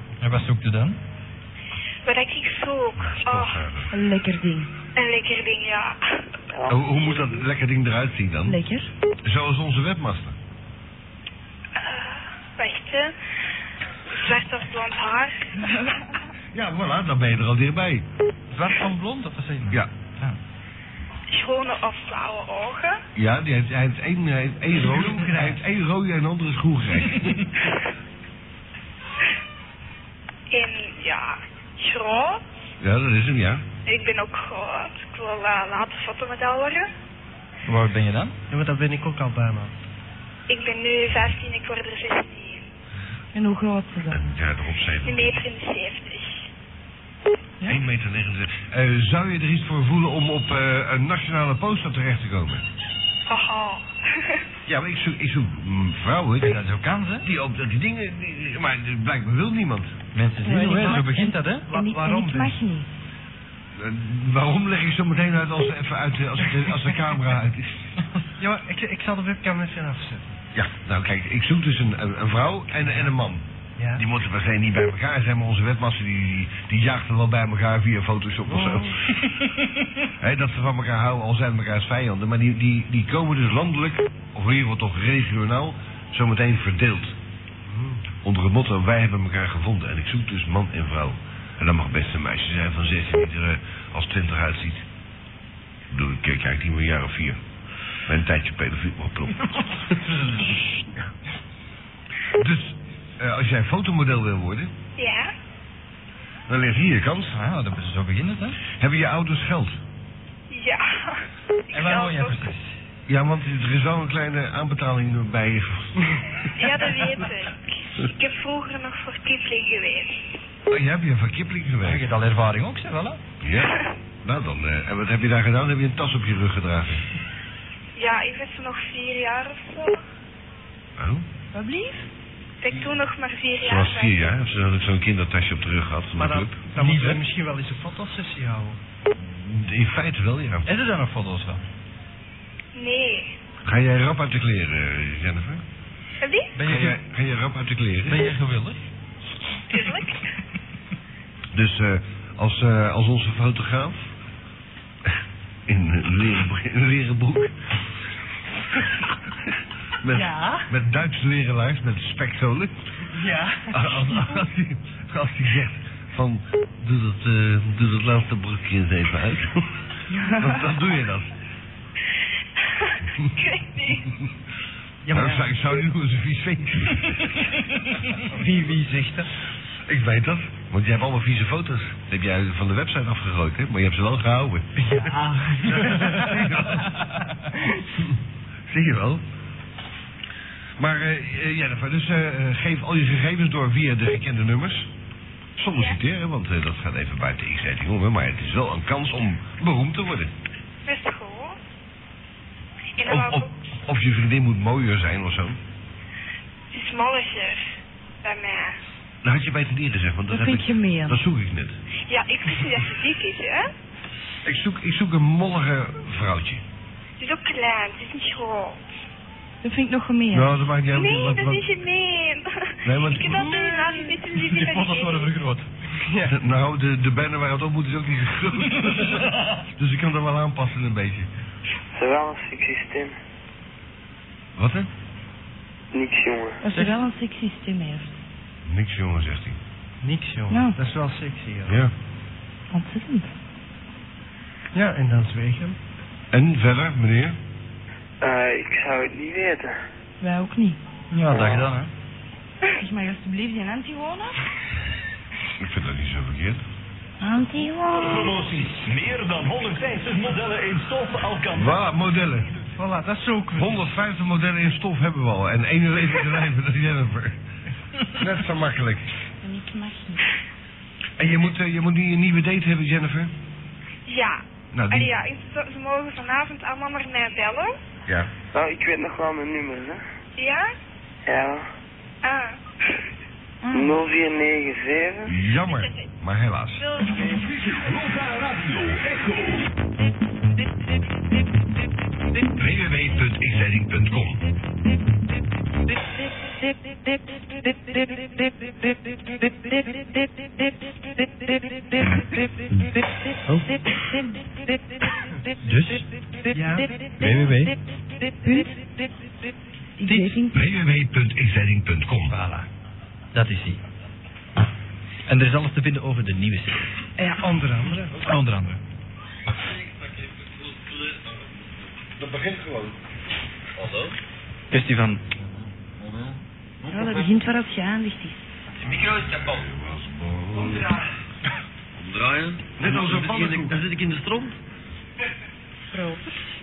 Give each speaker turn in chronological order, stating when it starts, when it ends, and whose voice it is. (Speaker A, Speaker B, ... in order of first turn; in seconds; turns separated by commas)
Speaker A: 0.2-1.0, Speaker B: 2.0-3.6, Speaker C: 3.0-3.9, Speaker D: 3.9-4.7, Speaker B: 5.0-6.0, Speaker C: 6.6-8.6, Speaker D: 8.4-8.9, Speaker C: 9.2-10.4, Speaker B: 11.8-13.2, Speaker B: 14.2-15.9, Speaker C: 16.5-18.1, Speaker A: 18.5-20.4, Speaker B: 21.3-23.0, Speaker C: 23.2-27.4, Speaker A: 25.2-25.5, Speaker B: 30.5-32.4, Speaker C: 32.8-33.6, Speaker B: 33.9-36.9, Speaker A: 37.7-38.4, Speaker E: 38.5-39.7, Speaker B: 40.5-42.6, Speaker D: 43.3-44.2, Speaker C: 44.1-45.4, Speaker B: 45.0-46.4, Speaker C: 47.6-52.7, Speaker B: 53.3-54.4, Speaker C: 54.7-56.6, Speaker A: 56.4-57.3, Speaker C: 57.2-60.0, Speaker A: 60.1-61.7, Speaker D: 60.4-62.9, Speaker E: 61.7-62.6, Speaker C: 63.8-67.8, Speaker E: 68.4-70.3, Speaker C: 70.5-73.4, Speaker E: 73.8-74.0, Speaker C: 74.0-79.1, Speaker C: 80.2-87.2, Speaker C: 88.1-94.9, Speaker C: 95.9-97.4, Speaker C: 98.1-99.4, Speaker A: 99.8-100.7, Speaker C: 102.4-104.7, Speaker B: 105.0-105.3, Speaker C: 106.5-107.4, Speaker A: 107.3-108.6, Speaker C: 108.7-109.8, Speaker B: 110.5-111.2, Speaker B: 111.7-112.5, Speaker A: 111.7-112.7, Speaker C: 113.1-116.2, Speaker B: 116.5-120.2, Speaker C: 120.7-122.1, Speaker A: 121.8-123.2, Speaker C: 123.4-127.0, Speaker B: 128.0-130.0, Speaker C: 131.0-131.2, Speaker D: 131.5-132.1, Speaker B: 132.6-134.3, Speaker C: 133.6-137.2, Speaker E: 136.2-138.8, Speaker A: 136.8-137.1, Speaker C: 139.2-140.7, Speaker A: 140.7-141.6, Speaker B: 142.8-143.3, Speaker C: 143.7-145.6, Speaker B: 146.2-146.5, Speaker A: 146.6-147.0, Speaker C: 146.7-148.3, Speaker A: 148.1-148.8, Speaker B: 149.7-150.2, Speaker C: 151.5-154.0, Speaker C: 155.7-157.5, Speaker C: 160.0-162.8, Speaker D: 160.1-160.7, Speaker D: 163.2-164.3, Speaker C: 163.7-169.8, Speaker D: 170.1-170.7, Speaker C: 170.3-171.3, Speaker B: 172.7-174.1, Speaker C: 175.1-177.4, Speaker A: 178.1-179.3, Speaker C: 179.9-184.9, Speaker C: 185.7-186.9, Speaker A: 185.7-186.5, Speaker C: 188.7-189.2, Speaker C: 190.8-194.9, Speaker C: 195.6-200.3, Speaker B: 200.9-201.6, Speaker B: 203.0-203.5, Speaker C: 203.0-205.6, Speaker B: 206.7-208.8, Speaker C: 209.2-211.8, Speaker D: 210.3-211.2, Speaker B: 212.1-213.7, Speaker C: 214.4-216.6, Speaker B: 217.2-218.8, Speaker D: 219.6-220.6, Speaker C: 220.3-221.7, Speaker B: 220.9-225.3, Speaker C: 222.8-223.5, Speaker A: 224.3-225.7, Speaker C: 226.2-231.3, Speaker F: 231.9-233.2, Speaker C: 234.6-234.9, Speaker F: 235.9-236.6, Speaker D: 236.6-238.2, Speaker A: 236.7-237.0, Speaker C: 238.7-239.6, Speaker E: 240.0-241.8, Speaker D: 240.5-240.8, Speaker C: 241.7-241.9, Speaker D: 242.7-243.3, Speaker E: 244.7-245.8, Speaker C: 246.3-247.4, Speaker F: 248.2-249.8, Speaker D: 250.2-250.8, Speaker A: 251.1-251.9, Speaker F: 251.3-251.6, Speaker D: 252.8-254.3, Speaker C: 255.6-256.6, Speaker D: 257.2-258.4, Speaker G: 258.0-261.8, Speaker C: 261.5-262.5, Speaker E: 262.8-263.8, Speaker C: 263.6-267.4, Speaker C: 268.1-269.1, Speaker D: 269.4-270.2, Speaker C: 271.2-273.3, Speaker B: 274.1-277.8, Speaker C: 274.7-275.1, Speaker C: 278.1-278.3, Speaker F: 278.5-280.0, Speaker B: 280.4-280.7, Speaker F: 281.2-281.7, Speaker B: 282.2-282.6, Speaker D: 283.6-284.0, Speaker F: 283.7-285.3, Speaker C: 285.3-286.9, Speaker B: 285.6-286.1, Speaker B: 286.8-287.2, Speaker G: 287.1-289.7, Speaker C: 292.6-294.4, Speaker A: 305.6-306.1, Speaker E: 306.5-306.9, Speaker C: 307.2-307.6, Speaker D: 308.4-308.8, Speaker D: 310.0-310.6, Speaker A: 310.1-310.3, Speaker C: 310.5-312.4, Speaker A: 312.3-312.7, Speaker A: 313.3-313.8, Speaker A: 315.3-316.9, Speaker E: 317.2-318.1, Speaker A: 318.2-318.8, Speaker H: 319.6-321.5, Speaker C: 322.2-323.0, Speaker H: 323.8-324.2, Speaker A: 324.7-325.2, Speaker D: 326.9-328.4, Speaker C: 328.8-330.9, Speaker H: 328.9-329.6, Speaker H: 332.0-334.6, Speaker C: 332.8-333.8, Speaker D: 335.9-336.2